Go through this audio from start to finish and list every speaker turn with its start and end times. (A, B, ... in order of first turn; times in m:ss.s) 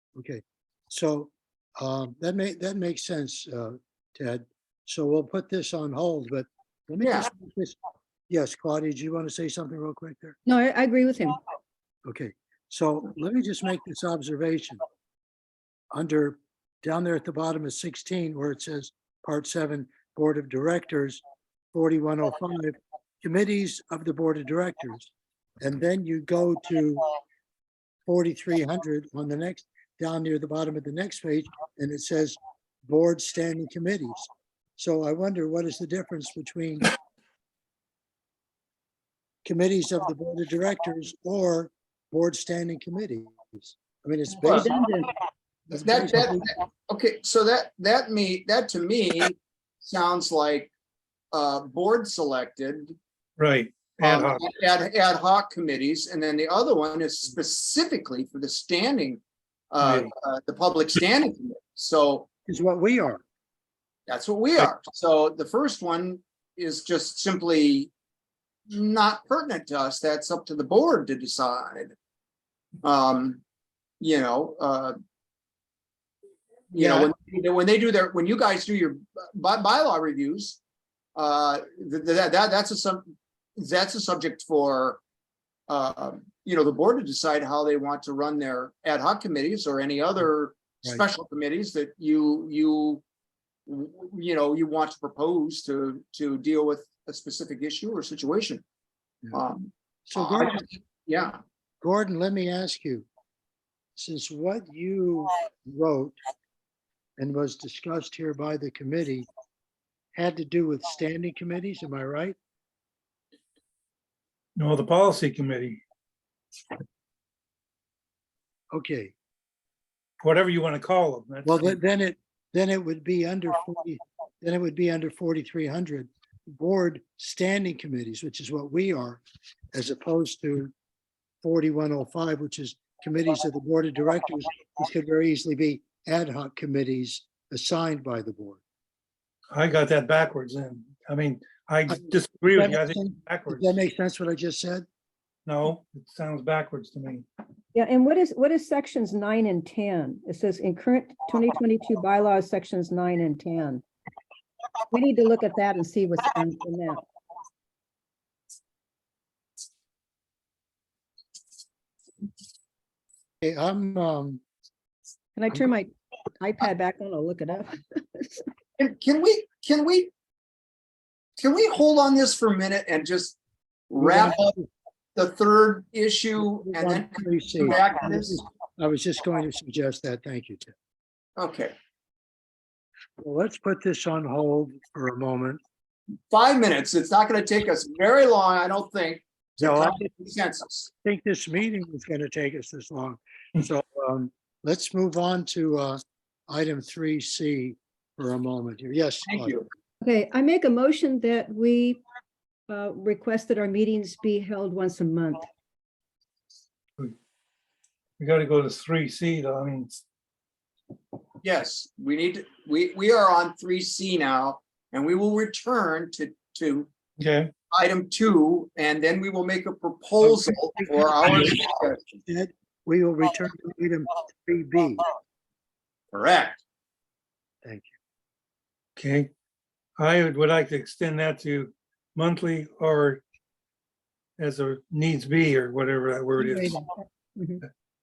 0:00.2-0:07.8 A
0:07.0-0:07.3 B
0:08.3-0:10.4 A
0:10.5-0:11.4 C
0:12.0-0:14.8 A
0:15.9-0:21.2 A
0:21.7-0:27.1 A
0:28.1-0:36.9 A
0:39.4-0:44.8 A
0:44.4-0:45.1 C
0:44.4-0:44.7 B
0:45.7-0:46.5 A
0:45.7-0:50.7 B
0:51.3-0:53.0 B
0:53.4-0:54.5 D
0:54.0-1:02.3 B
0:59.8-1:00.1 D
1:02.5-1:03.2 A
1:04.1-1:07.9 B
1:08.7-1:12.0 B
1:12.8-1:13.4 B
1:14.0-1:15.0 B
1:16.7-1:20.6 B
1:16.8-1:17.1 A
1:21.2-1:25.0 B
1:25.7-1:33.0 B
1:33.7-1:38.6 B
1:39.3-1:41.4 B
1:40.1-1:40.7 A
1:41.8-1:43.1 A
1:44.0-1:46.2 A
1:47.2-1:49.3 A
1:50.1-1:52.4 A
1:54.6-1:55.8 D
1:58.7-1:59.1 A
2:00.2-2:01.8 D
2:01.4-2:09.2 A
2:09.7-2:10.7 A
2:11.4-2:18.6 A
2:19.5-2:23.8 D
2:21.9-2:24.9 A
2:25.5-2:27.2 D
2:27.7-2:33.8 C
2:34.9-2:37.0 C
2:43.4-2:44.4 A
2:45.4-2:48.4 C
2:48.8-2:50.1 B
2:51.4-2:53.4 B
2:53.9-2:54.6 B
2:54.0-2:54.7 A
2:55.2-2:58.4 B
2:56.6-3:00.7 A
3:01.4-3:01.7 B
3:03.2-3:05.6 A
3:06.3-3:10.9 B
3:09.6-3:10.0 A
3:11.0-3:19.6 A
3:19.3-3:19.7 B
3:20.0-3:22.0 C
3:22.7-3:25.4 C
3:28.2-3:30.0 D
3:31.4-3:36.9 B
3:37.2-3:37.5 D
3:37.7-3:42.2 B
3:40.2-3:41.6 A
3:42.2-3:45.1 A
3:46.1-3:46.6 B
3:47.6-3:47.9 A
3:49.0-3:49.3 D
3:50.0-3:53.2 D
3:54.4-3:56.8 D
3:56.4-3:57.6 C